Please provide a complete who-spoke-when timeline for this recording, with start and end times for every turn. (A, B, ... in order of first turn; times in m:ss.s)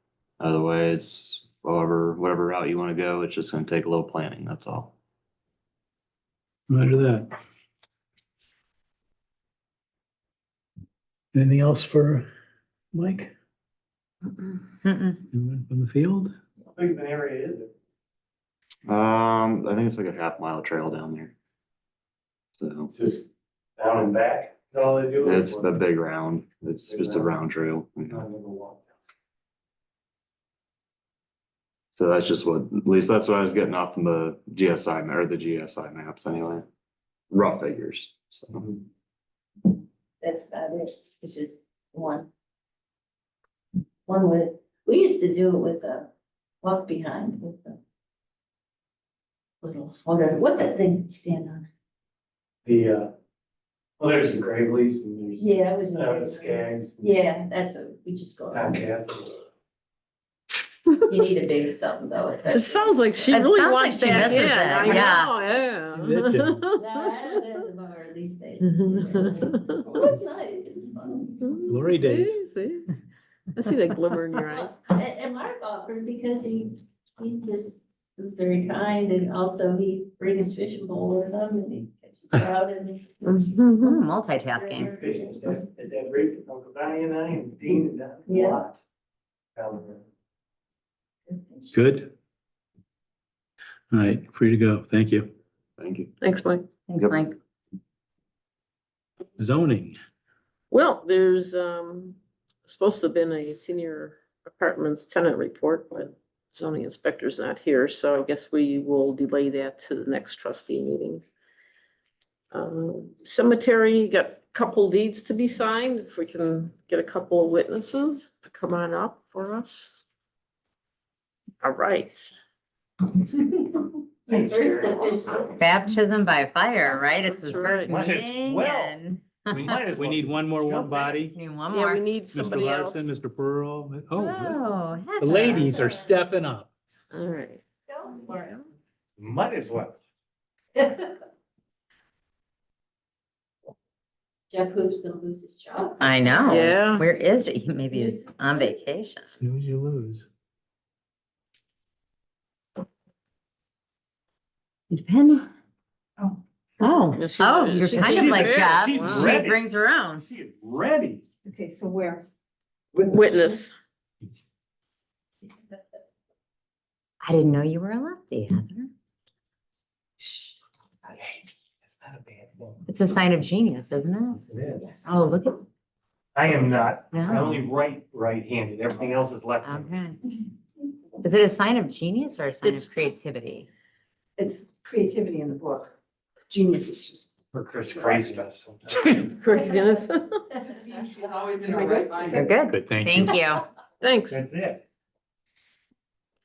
0:00.4-0:04.9 A
0:06.7-0:07.3 B
0:11.3-0:12.2 B
0:12.9-0:13.3 B
0:14.3-0:15.2 C
0:15.3-0:16.3 B
0:16.7-0:17.7 D
0:18.9-0:21.3 A
0:22.6-0:22.9 A
0:22.9-0:23.2 D
0:23.8-0:25.7 D
0:25.2-0:28.2 A
0:26.8-0:27.3 D
0:28.1-0:28.8 D
0:32.0-0:36.6 A
0:37.3-0:38.6 A
0:40.2-0:42.3 E
0:44.1-0:46.1 E
0:46.6-0:47.8 E
0:49.6-0:51.6 E
0:52.6-0:53.1 D
0:54.0-0:57.0 D
0:55.4-0:58.8 E
0:58.5-0:59.3 D
1:01.1-1:02.9 E
1:02.5-1:07.6 F
1:03.2-1:05.3 C
1:04.2-1:04.6 B
1:05.9-1:06.7 B
1:06.7-1:11.6 E
1:08.6-1:10.0 F
1:11.4-1:12.9 F
1:11.6-1:12.4 B
1:13.5-1:14.8 F
1:14.5-1:23.4 E
1:23.2-1:24.0 F
1:23.8-1:25.0 C
1:24.6-1:25.0 E
1:24.9-1:28.8 D
1:28.2-1:28.6 E
1:29.5-1:30.0 D
1:31.7-1:32.1 B
1:33.9-1:35.3 B
1:35.8-1:36.1 A
1:36.2-1:36.7 F
1:36.9-1:37.3 C
1:37.0-1:37.2 A
1:39.4-1:40.0 B
1:40.7-1:51.2 F
1:52.5-2:00.0 F
2:01.6-2:02.3 F
2:04.3-2:05.5 E
2:04.3-2:05.5 D
2:05.5-2:09.7 C
2:07.0-2:08.0 F
2:07.9-2:08.9 D
2:09.5-2:11.2 D
2:09.8-2:11.4 B
2:11.3-2:12.0 C
2:11.7-2:13.1 F
2:12.3-2:14.6 B
2:14.1-2:16.0 C
2:15.2-2:16.7 B
2:17.1-2:17.6 F
2:17.9-2:18.6 E
2:19.2-2:20.0 D
2:20.8-2:21.1 E
2:24.5-2:26.7 E
2:26.0-2:29.3 C
2:26.4-2:27.0 F
2:27.3-2:28.8 E
2:29.4-2:30.2 B
2:34.9-2:35.5 C
2:36.8-2:40.2 C
2:37.1-2:39.4 F
2:37.9-2:39.6 D
2:40.2-2:41.2 D
2:41.4-2:42.2 E
2:42.9-2:43.7 F
2:47.2-2:48.9 C
2:51.1-2:52.8 D
2:52.8-2:54.4 C
2:54.5-2:54.8 D
2:54.8-2:55.1 E
2:55.0-2:55.6 C
2:56.3-2:59.9 D
2:57.1-2:57.6 C
2:59.6-3:00.2 C
3:01.2-3:03.7 C
3:02.6-3:02.9 F
3:04.4-3:05.9 E
3:06.5-3:07.3 E
3:07.5-3:09.4 D
3:09.1-3:10.6 F
3:10.8-3:12.5 E
3:12.2-3:13.6 C
3:12.7-3:13.3 B
3:14.0-3:14.4 F
3:14.3-3:14.8 D